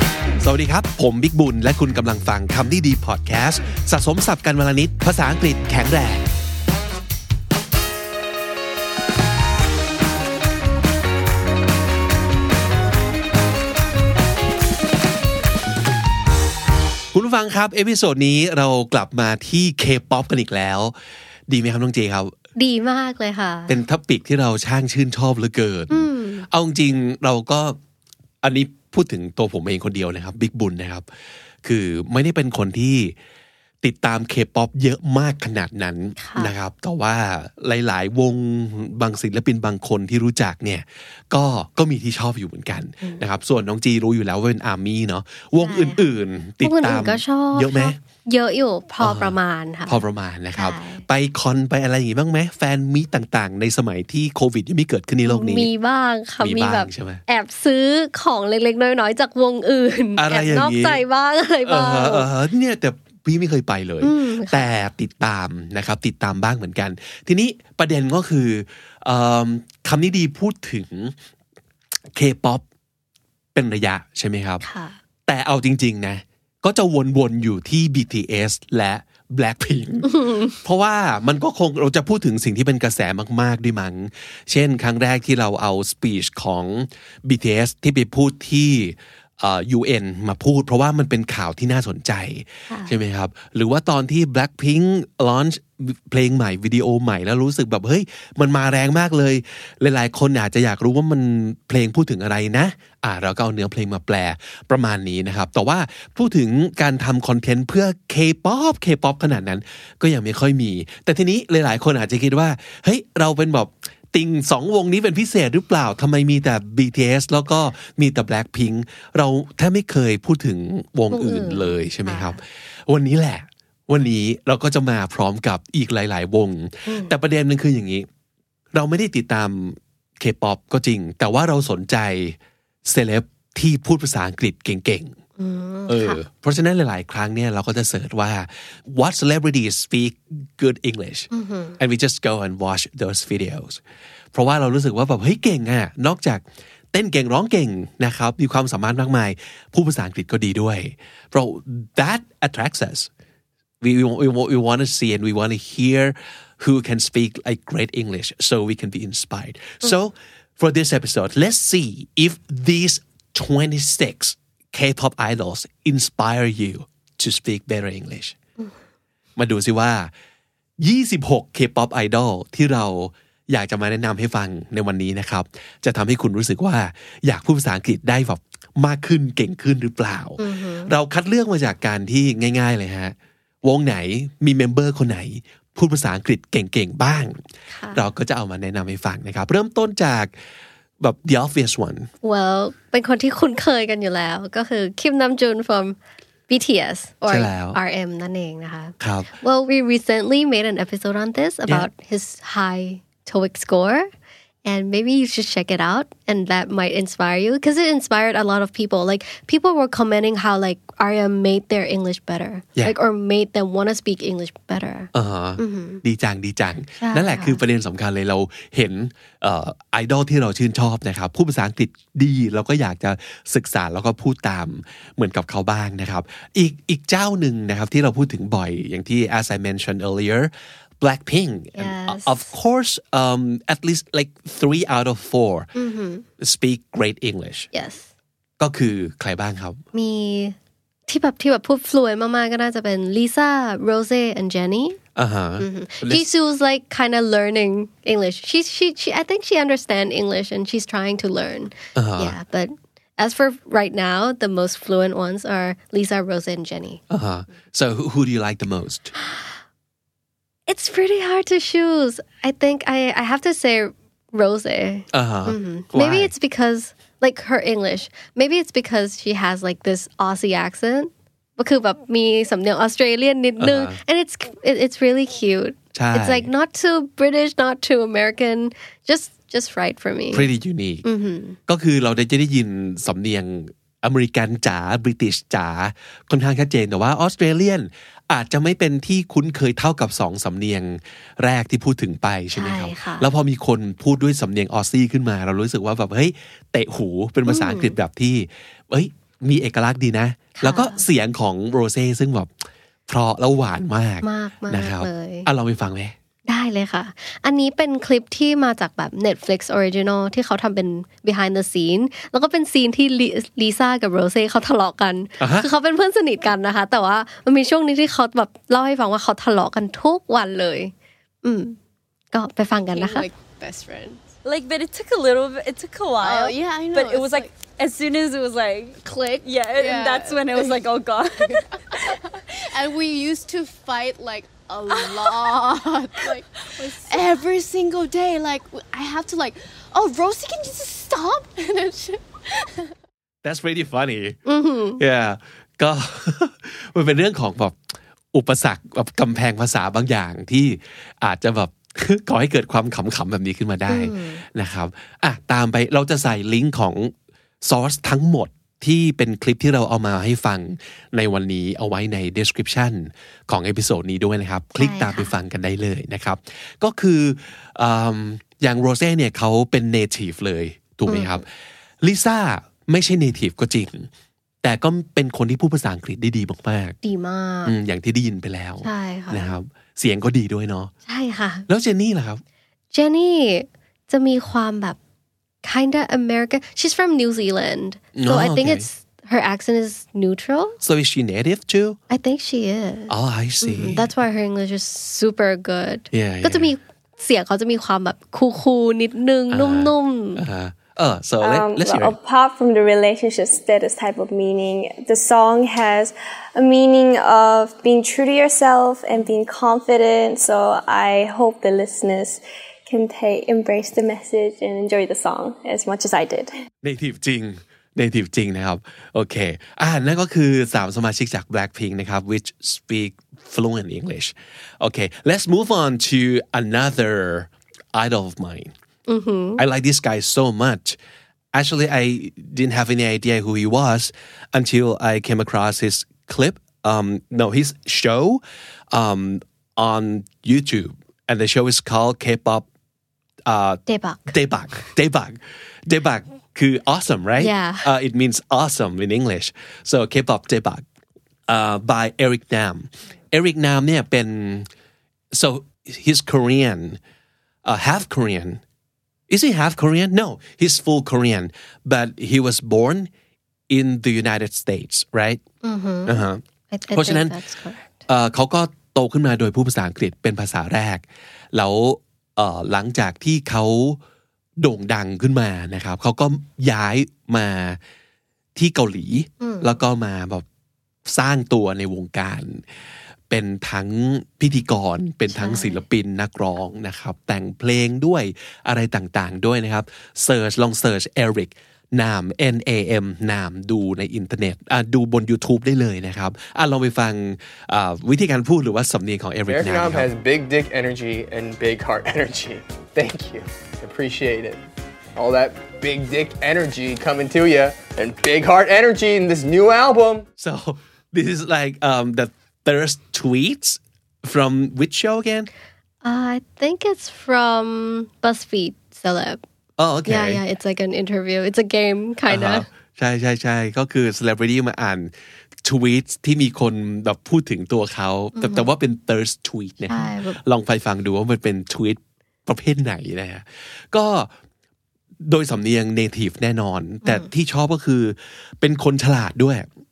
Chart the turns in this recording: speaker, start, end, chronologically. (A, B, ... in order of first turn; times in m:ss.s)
0:00.4-0:06.2 A
0:17.1-0:20.9 A
0:21.5-0:22.3 A
0:22.6-0:23.7 B
0:23.7-0:27.8 A
0:25.9-0:26.5 B
0:28.4-0:31.0 A
0:31.6-0:33.1 A
0:33.8-0:48.0 A
0:36.2-0:36.5 B
0:45.6-0:46.0 B
0:46.6-0:50.0 B
0:49.0-0:55.7 A
0:50.6-0:51.0 B
0:55.2-1:02.3 B
0:56.4-0:57.2 A
1:00.2-1:01.0 A
1:01.6-1:11.1 A
1:04.0-1:04.7 B
1:12.1-1:12.6 A
1:13.5-1:14.6 A
1:14.6-1:15.0 B
1:15.3-2:08.1 A
1:20.0-1:20.5 B
2:01.1-2:02.4 B
2:06.8-2:07.1 B
2:08.7-2:15.2 A
2:15.4-2:16.2 B
2:15.9-2:23.8 A
2:21.3-2:21.8 B
2:24.3-2:33.1 A
2:33.8-2:48.3 A
2:49.4-2:50.1 A
2:50.8-3:07.4 A
3:00.4-3:00.9 B
3:07.7-3:08.0 B
3:07.9-3:10.3 A
3:11.0-3:12.1 A
3:12.2-3:16.0 B
3:16.5-3:24.1 B
3:17.3-3:17.8 A
3:19.0-3:19.3 A
3:24.6-3:36.0 B
3:35.1-3:55.7 A
3:37.0-3:37.6 B
3:51.8-3:52.5 B
3:55.7-3:56.2 B
3:56.4-3:57.7 A
3:57.7-3:58.1 B
3:58.6-3:59.8 A
3:59.9-4:00.6 B
4:01.1-4:05.0 B
4:05.2-4:06.3 A
4:05.6-4:17.0 B
4:12.0-4:12.3 A
4:17.1-4:19.1 A
4:19.2-4:19.5 B
4:20.7-4:40.5 B
4:25.1-4:26.3 A
4:33.6-4:34.0 A
4:35.9-4:36.5 A
4:40.3-4:41.0 A
4:41.0-4:41.6 B
4:41.7-5:02.5 A
4:52.5-4:53.2 B
4:57.5-4:57.9 B
5:00.6-5:01.0 B
5:03.1-5:06.1 A
5:04.2-5:05.5 B
5:06.5-5:21.8 B
5:15.4-5:15.7 A
5:22.3-5:23.3 B
5:22.9-5:24.4 C
5:24.4-5:31.4 D
5:26.1-5:27.7 C
5:29.7-5:42.9 C
5:43.4-5:44.4 A
5:44.4-5:45.0 B
5:45.0-5:47.8 A
5:48.3-6:11.5 A
5:53.9-5:54.4 B
6:04.8-6:05.3 B
6:11.1-6:11.4 B
6:12.0-6:14.1 A
6:14.6-6:17.0 A
6:17.0-6:17.7 B
6:17.6-6:20.9 A
6:18.8-6:19.5 B
6:21.0-6:21.6 B
6:21.7-6:22.4 A
6:22.9-6:25.0 B
6:25.6-6:30.8 B
6:28.1-6:28.8 A
6:30.8-6:32.0 A
6:32.1-6:40.4 B
6:33.1-6:34.1 A
6:36.1-6:36.7 A
6:39.5-6:42.1 A
6:41.4-6:56.5 E
6:56.8-7:08.7 A
7:09.1-7:09.6 B
7:09.6-7:11.0 A
7:11.5-7:18.4 A
7:18.9-7:22.7 A
7:23.4-7:30.8 A
7:23.9-7:24.3 B
7:27.4-7:27.9 B
7:31.5-7:34.7 A
7:35.3-7:37.0 A
7:37.6-7:38.6 A
7:39.3-7:43.1 A
7:43.7-7:45.4 A
7:45.6-7:48.0 B
7:46.1-7:46.4 A
7:46.9-7:47.3 A
7:48.1-7:54.0 A
7:54.6-7:57.8 A
7:58.6-8:00.4 A
7:59.4-7:59.8 B
8:01.1-8:02.6 A
8:03.3-8:20.1 A
8:05.3-8:05.8 B
8:19.5-8:24.6 F
8:25.2-8:30.2 F
8:30.4-8:35.5 A
8:36.0-8:39.4 B
8:39.8-8:40.4 A
8:40.1-8:42.6 B
8:42.3-8:45.1 A
8:45.6-8:54.3 A
8:48.4-8:48.7 B
8:49.9-8:50.4 B
8:55.2-8:59.7 A
8:57.0-8:57.3 B